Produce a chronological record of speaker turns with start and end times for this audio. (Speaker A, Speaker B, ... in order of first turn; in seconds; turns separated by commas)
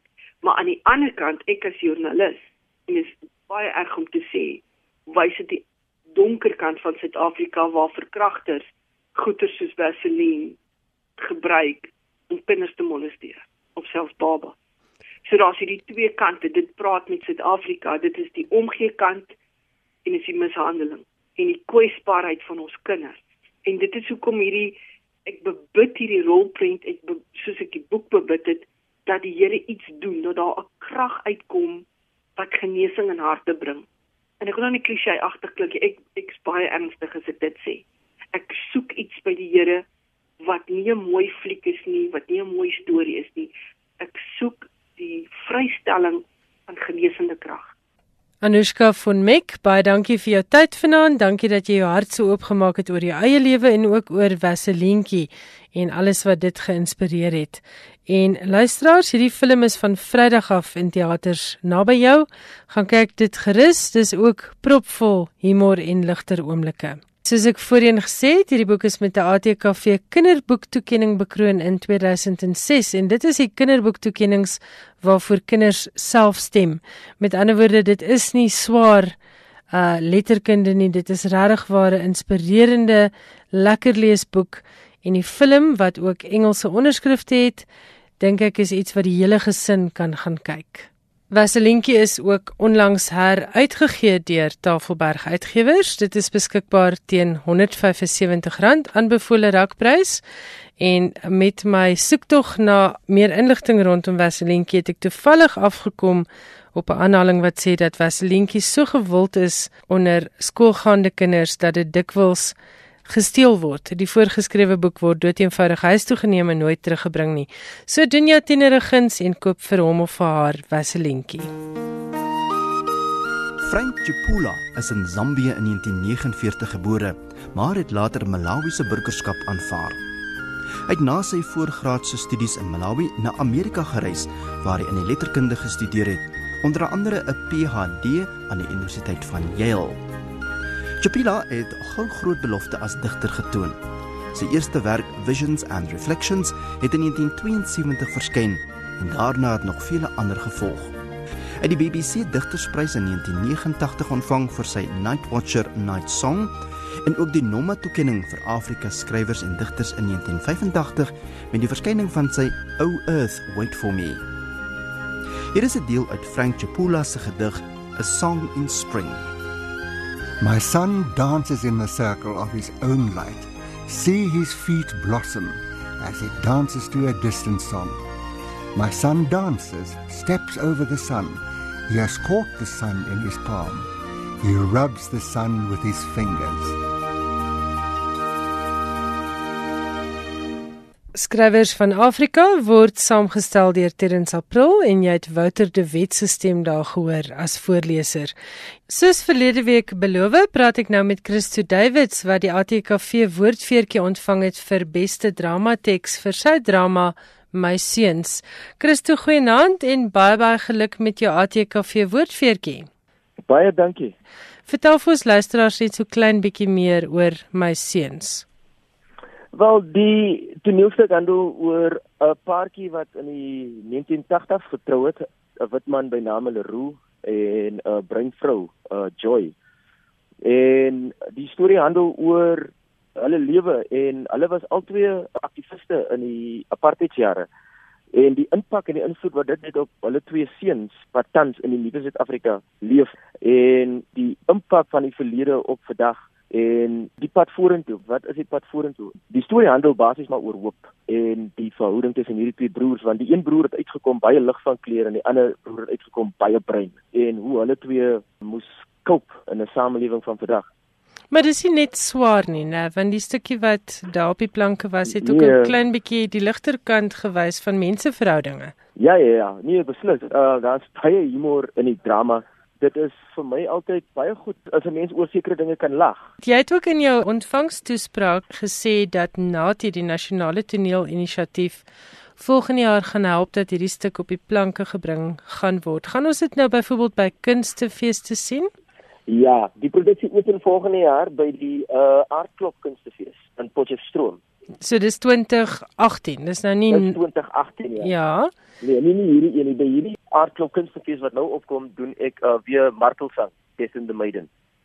Speaker A: 0.4-8.6, Speaker A: 9.2-10.6, Speaker A: 11.2-14.6, Speaker A: 15.2-19.3, Speaker A: 20.1-31.9, Speaker A: 32.4-33.9, Speaker A: 34.4-39.8, Speaker A: 40.4-47.7, Speaker B: 48.4-79.2, Speaker B: 79.7-87.7, Speaker B: 88.2-100.2, Speaker B: 100.8-112.5, Speaker B: 113.0-121.5, Speaker C: 123.6-130.0, Speaker C: 130.9-140.0, Speaker C: 141.0-143.8, Speaker C: 144.3-150.9, Speaker C: 151.6-156.5, Speaker C: 157.1-164.3, Speaker C: 165.5-169.3, Speaker D: 170.4-178.0, Speaker D: 178.8-183.9, Speaker D: 184.4-186.8, Speaker B: 191.2-198.3, Speaker B: 198.9-212.9, Speaker E: 213.5-214.2, Speaker B: 214.7-218.4, Speaker E: 219.5-229.5, Speaker E: 230.4-237.5, Speaker E: 238.1-260.7, Speaker B: 261.3-268.7, Speaker E: 265.1-265.8, Speaker E: 269.0-276.2, Speaker B: 276.4-281.8, Speaker B: 282.4-288.7, Speaker E: 289.3-294.4, Speaker B: 294.8-297.2, Speaker E: 296.9-298.1, Speaker B: 298.0-298.5, Speaker E: 298.8-304.5